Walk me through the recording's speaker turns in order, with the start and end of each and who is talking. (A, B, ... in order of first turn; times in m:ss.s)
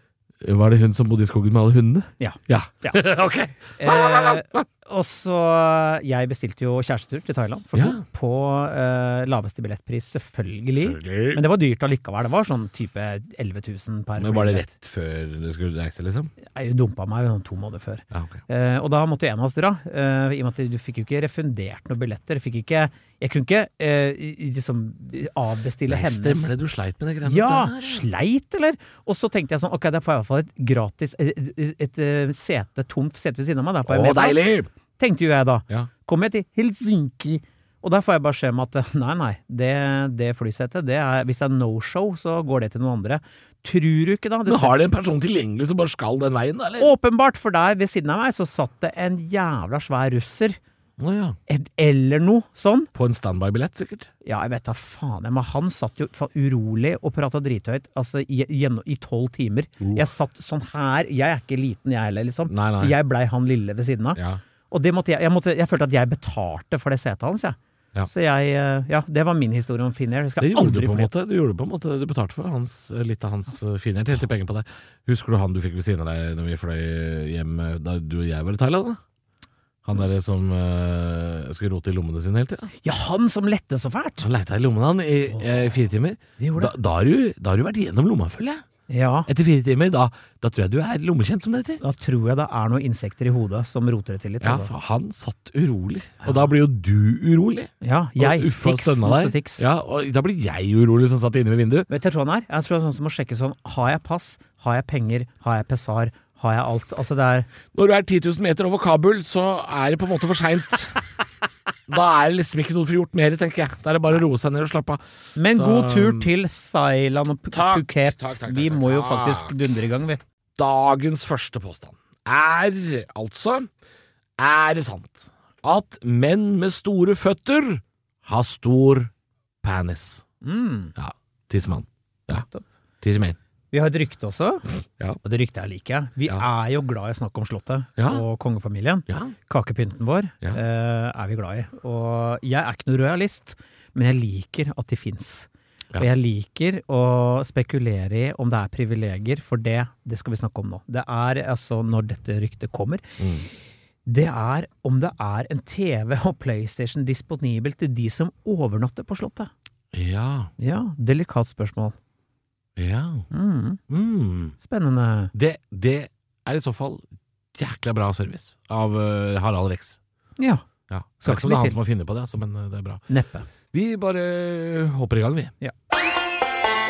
0:00.4-0:04.6 A
0:02.2-0:03.0 B
0:03.8-0:14.7 B
0:07.8-0:08.0 A
0:10.8-0:11.4 A
0:14.2-0:16.3 A
0:16.4-0:26.5 B
0:18.1-0:18.4 A
0:25.9-0:28.0 A
0:27.2-0:44.8 B
0:33.8-0:34.7 A
0:44.4-0:46.9 A
0:46.8-0:50.6 B
0:51.0-0:51.4 A
0:51.5-0:52.9 B
0:52.9-0:54.1 A
0:54.2-1:04.2 B
0:59.8-1:00.0 A
1:02.5-1:03.0 A
1:04.7-1:11.1 B
1:10.4-1:19.0 A
1:19.8-1:22.7 A
1:22.8-1:24.2 B
1:24.2-1:28.6 A
1:25.3-1:25.7 B
1:26.4-1:26.7 B
1:28.9-1:29.3 B
1:29.3-1:31.8 A
1:31.8-1:34.7 B
1:34.4-1:41.9 A
1:36.2-1:36.5 B
1:37.8-1:39.6 B
1:41.9-1:47.5 B
1:47.7-1:51.0 A
1:51.9-1:56.3 A
1:55.4-2:00.2 B
1:57.5-1:59.5 A
2:00.6-2:03.7 A
2:04.4-2:09.1 A
2:09.6-2:10.2 A
2:10.4-2:10.9 B
2:11.0-2:12.4 A
2:12.3-2:12.6 B
2:13.0-2:13.4 A
2:13.7-2:14.7 B
2:15.2-2:33.2 B
2:18.0-2:18.2 A
2:19.1-2:19.3 A
2:33.2-2:33.5 A
2:34.0-2:39.5 B
2:39.9-2:40.5 A
2:40.6-2:41.9 B
2:42.8-2:43.3 A
2:43.3-2:43.8 B
2:43.9-2:44.6 A
2:44.6-2:45.3 B
2:45.3-2:47.0 A
2:47.6-2:50.0 A
2:50.4-2:50.6 B
2:50.9-2:53.0 A
2:51.2-2:51.8 B
2:53.1-2:53.5 B
2:53.7-2:55.5 A